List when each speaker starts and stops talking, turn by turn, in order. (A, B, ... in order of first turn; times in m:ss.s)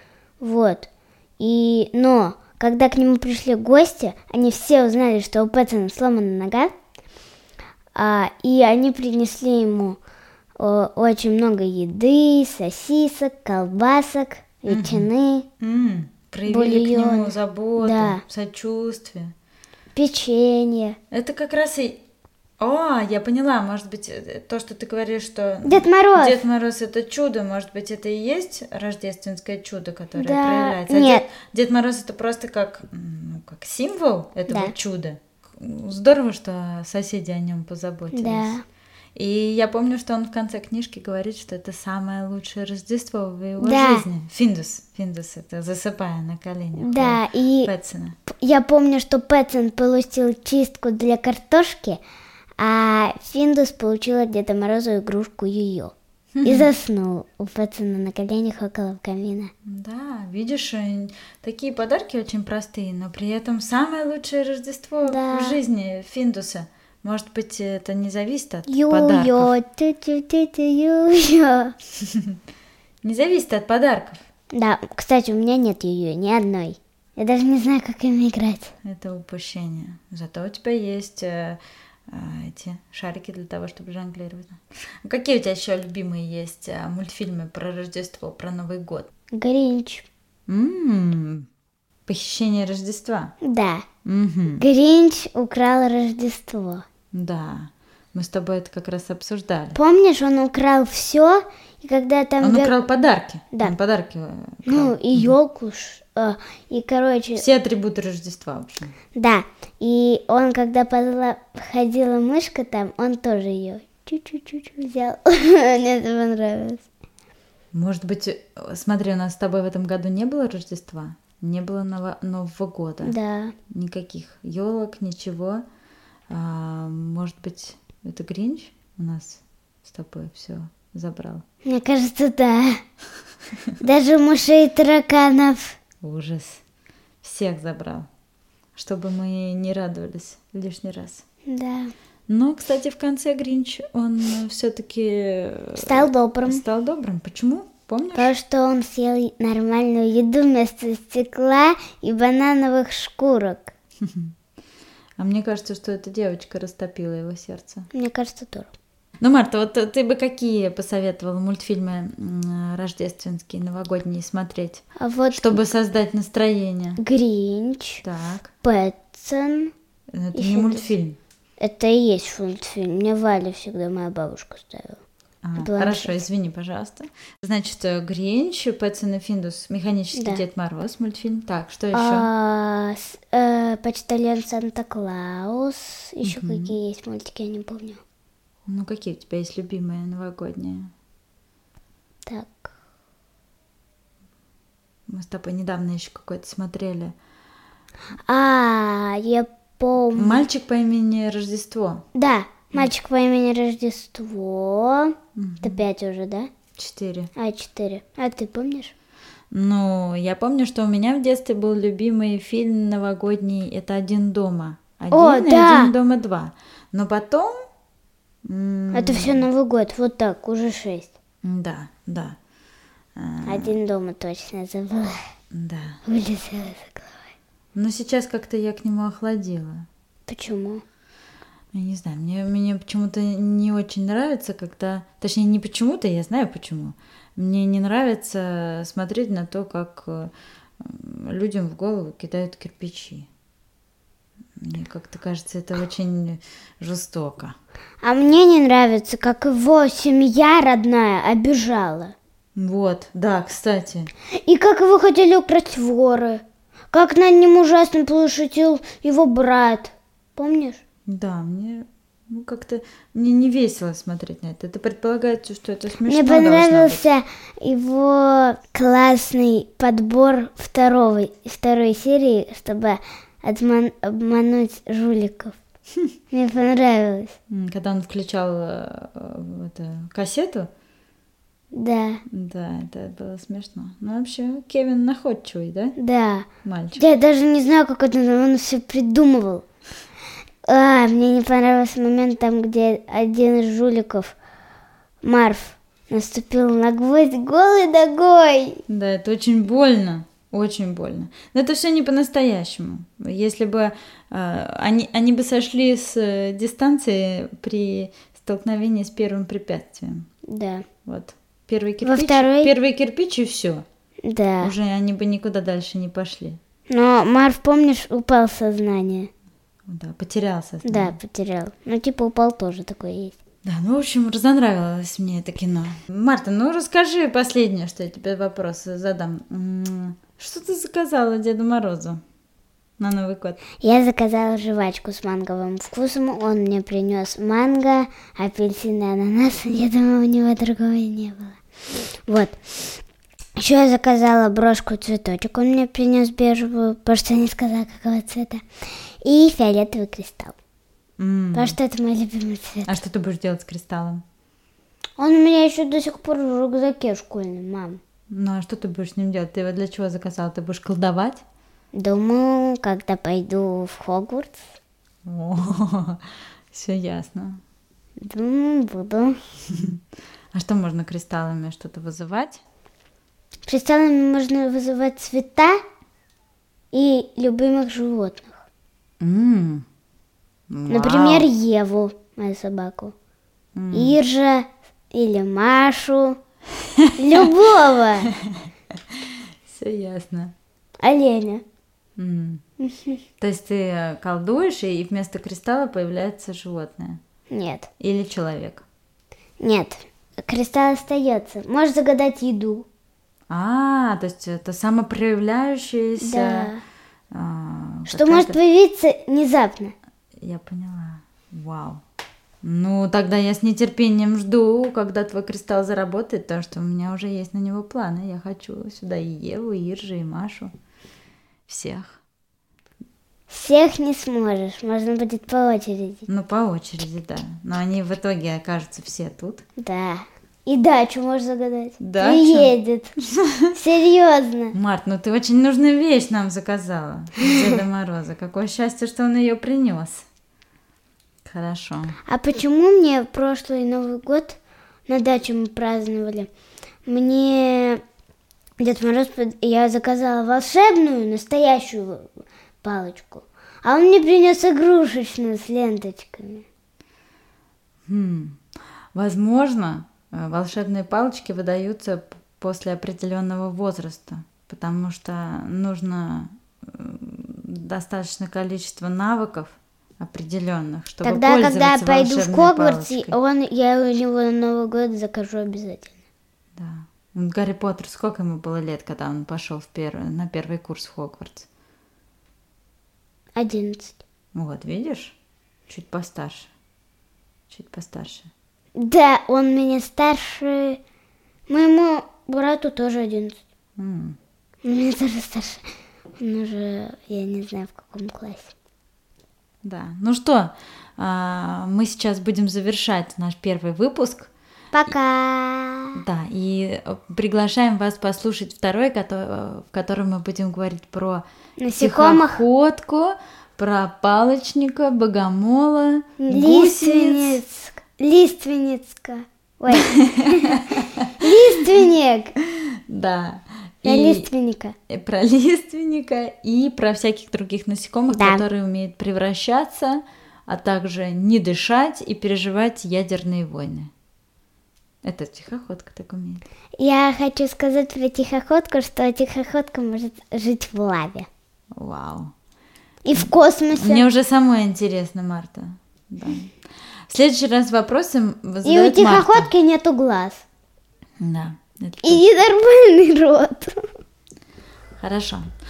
0:00.4-0:00.9 A
0:01.4-0:06.7 A
0:08.0-0:10.0 A
0:10.6-0:15.5 A
0:14.7-0:15.1 B
0:15.6-0:19.3 B
0:16.5-0:18.2 A
0:20.0-0:21.0 A
0:21.1-0:22.0 B
0:22.6-0:38.5 B
0:25.6-0:26.4 A
0:30.2-0:31.2 A
0:34.5-0:34.7 A
0:38.1-0:38.6 A
0:39.2-0:48.2 B
0:43.6-0:44.0 A
0:46.8-0:47.7 A
0:48.3-0:52.0 A
0:52.6-0:59.5 A
0:56.4-0:56.7 B
0:59.7-1:09.5 B
1:05.1-1:05.6 A
1:08.7-1:11.8 A
1:12.0-1:12.4 B
1:13.0-1:14.2 B
1:14.5-1:18.7 A
1:18.8-1:29.1 B
1:29.3-1:30.1 A
1:30.5-1:31.5 B
1:32.1-1:33.3 B
1:33.4-1:33.9 A
1:34.0-1:34.6 B
1:34.6-1:36.8 A
1:37.1-1:39.8 B
1:39.7-1:42.8 A
1:42.4-1:45.4 B
1:44.7-1:47.4 A
1:47.4-1:48.9 B
1:49.2-1:56.8 A
1:57.7-2:03.2 B
2:03.0-2:03.6 A
2:03.7-2:05.6 B
2:06.3-2:11.4 B
2:11.6-2:12.8 A
2:13.8-2:15.8 A
2:16.0-2:16.6 B
2:17.2-2:18.1 B
2:18.8-2:21.2 B
2:21.5-2:21.9 A
2:22.3-2:28.3 B
2:25.8-2:26.6 A
2:28.2-2:33.7 A
2:34.0-2:34.3 B
2:35.2-2:37.9 B
2:37.9-2:38.7 A
2:39.2-2:47.0 B
2:45.0-2:45.6 A
2:47.0-2:48.0 A
2:48.0-2:48.5 B
2:48.6-2:49.7 A
2:50.1-2:51.2 B
2:50.4-2:50.9 A
2:51.6-2:55.0 A
2:55.4-3:02.3 B
2:55.6-2:56.2 A
3:00.1-3:00.4 A
3:01.9-3:08.0 A
3:06.2-3:06.8 B
3:08.7-3:10.9 B
3:12.3-3:12.7 A
3:15.1-3:17.2 B
3:18.3-3:20.5 A
3:20.1-3:22.0 B
3:22.1-3:26.5 A
3:25.4-3:25.8 B
3:26.8-3:27.3 B
3:27.4-3:28.9 A
3:29.5-3:37.5 B
3:35.1-3:35.9 A
3:38.4-3:39.4 B
3:38.9-3:41.1 A
3:41.4-3:42.4 B
3:43.2-3:43.7 B
3:43.4-3:45.2 A
3:45.5-3:46.0 B
3:46.1-3:47.3 A
3:47.8-3:49.9 B
3:50.3-3:50.8 A
3:51.7-4:03.3 B
4:04.6-4:07.6 B
4:08.0-4:12.2 A
4:12.6-4:14.1 B
4:14.4-4:20.8 A
4:21.1-4:27.0 B
4:26.0-4:35.6 A
4:36.3-4:37.4 A
4:37.5-4:40.7 B
4:41.7-4:42.2 A
4:42.3-4:46.0 B
4:46.0-4:49.6 A
4:46.6-4:47.1 B
4:50.7-4:54.4 A
4:55.2-4:58.8 A
4:58.9-5:10.3 B
5:10.5-5:10.8 A
5:11.1-5:13.8 B
5:12.0-5:12.7 A
5:14.2-5:14.7 A
5:14.6-5:16.6 B
5:16.9-5:19.3 A
5:19.9-5:21.2 B
5:20.8-5:23.4 A
5:23.6-5:32.2 B
5:33.0-5:33.6 B
5:33.8-5:41.6 A
5:42.3-5:43.0 A
5:43.6-5:48.6 A
5:49.2-5:50.6 A
5:51.2-5:51.8 B
5:51.6-5:53.0 A
5:52.9-5:54.2 B
5:55.2-5:58.0 A
5:58.3-6:01.4 B
6:01.9-6:04.6 A
6:05.3-6:07.6 B
6:08.2-6:09.4 A
6:09.7-6:10.0 B
6:10.5-6:12.6 B
6:13.7-6:15.8 A
6:16.9-6:18.7 A
6:19.2-6:19.8 B
6:20.7-6:21.5 B
6:20.9-6:23.1 A
6:23.8-6:24.2 B
6:23.9-6:26.4 A
6:27.0-6:27.5 B
6:27.2-6:28.3 A
6:28.4-6:30.5 B
6:31.0-6:31.6 A
6:32.2-6:32.6 B
6:32.8-6:33.2 A
6:33.4-6:37.2 B
6:37.5-6:37.9 A
6:38.0-6:38.8 B
6:39.6-6:42.9 A
6:43.5-6:46.7 B
6:46.2-6:46.8 A
6:47.3-6:48.6 B
6:48.1-6:49.9 A
6:50.4-6:52.0 B
6:52.6-7:00.7 B
7:01.7-7:02.2 B
7:03.5-7:06.3 A
7:06.3-7:09.6 B
7:09.8-7:13.1 A
7:12.0-7:12.7 B
7:13.3-7:13.7 B
7:13.7-7:14.8 A
7:14.7-7:20.3 B
7:21.4-7:22.2 B
7:22.3-7:26.5 A
7:27.1-7:28.0 A
7:28.8-7:36.6 A
7:38.1-7:38.6 B
7:39.1-7:53.4 B
7:51.2-7:56.2 A
7:56.8-8:01.7 B
8:03.6-8:04.2 A
8:04.5-8:05.4 B
8:05.9-8:06.7 B
8:07.7-8:08.5 B
8:09.0-8:11.0 A
8:11.7-8:13.6 A
8:14.0-8:14.4 B
8:14.8-8:15.9 A
8:16.4-8:18.7 A
8:19.8-8:24.5 B
8:24.9-8:26.2 A
8:26.2-8:31.4 B
8:31.8-8:32.6 A
8:32.0-8:37.6 B
8:36.4-8:40.9 A
8:39.9-8:41.3 B
8:41.4-8:42.6 A
8:42.6-8:44.5 B
8:44.0-8:45.0 A
8:45.1-8:54.1 B
8:48.3-8:48.6 A
8:55.2-8:56.6 B
8:57.0-9:01.5 A
9:02.0-9:02.5 B
9:03.2-9:04.3 A
9:03.4-9:06.8 B
9:07.3-9:09.7 B
9:08.8-9:10.6 A
9:11.4-9:12.5 B
9:12.2-9:14.1 A
9:15.2-9:15.7 B